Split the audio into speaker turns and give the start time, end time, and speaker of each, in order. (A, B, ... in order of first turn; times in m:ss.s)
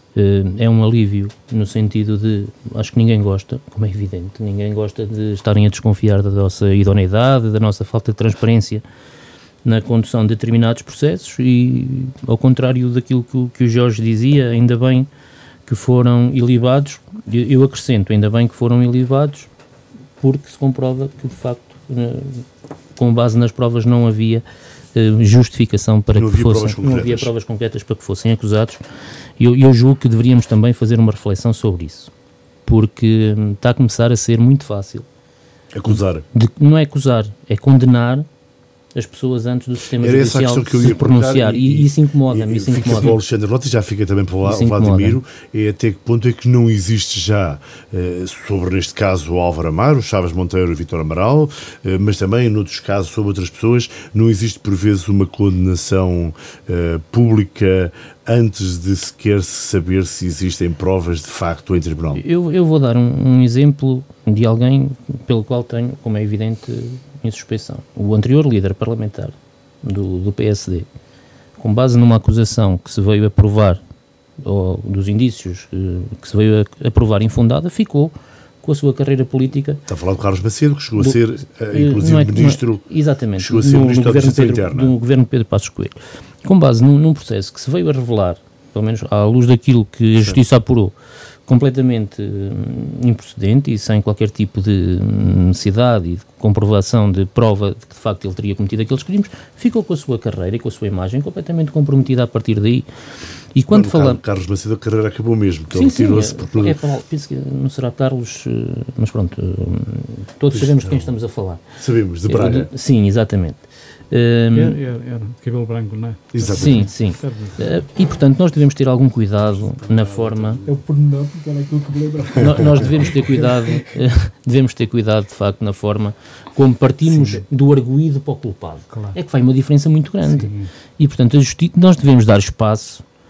0:00.2-0:08.8 A
0:09.6-0:15.1 A
0:15.7-0:19.5 A
0:20.2-0:22.4 A
0:23.0-0:28.8 A
0:26.2-0:27.3 B
0:29.4-0:32.1 A
0:32.7-0:35.1 A
0:35.7-0:36.2 B
0:35.9-0:38.3 A
0:38.9-0:43.2 A
0:40.0-1:02.2 B
0:44.4-0:45.2 A
1:02.2-1:10.9 A
1:11.6-1:13.8 A
1:14.4-1:19.8 A
1:19.9-1:22.8 B
1:21.7-1:30.9 A
1:23.4-1:24.9 B
1:31.5-1:42.9 A
1:43.6-1:44.2 A
1:43.7-1:46.8 B
1:45.7-1:51.6 A
1:50.5-1:51.1 B
1:51.8-1:52.7 B
1:52.3-1:54.8 A
1:54.5-1:57.7 C
1:56.3-1:56.9 B
1:56.6-2:00.6 A
2:00.6-2:03.7 C
2:02.4-2:13.0 A
2:07.1-2:07.4 C
2:08.9-2:09.2 C
2:10.2-2:10.7 C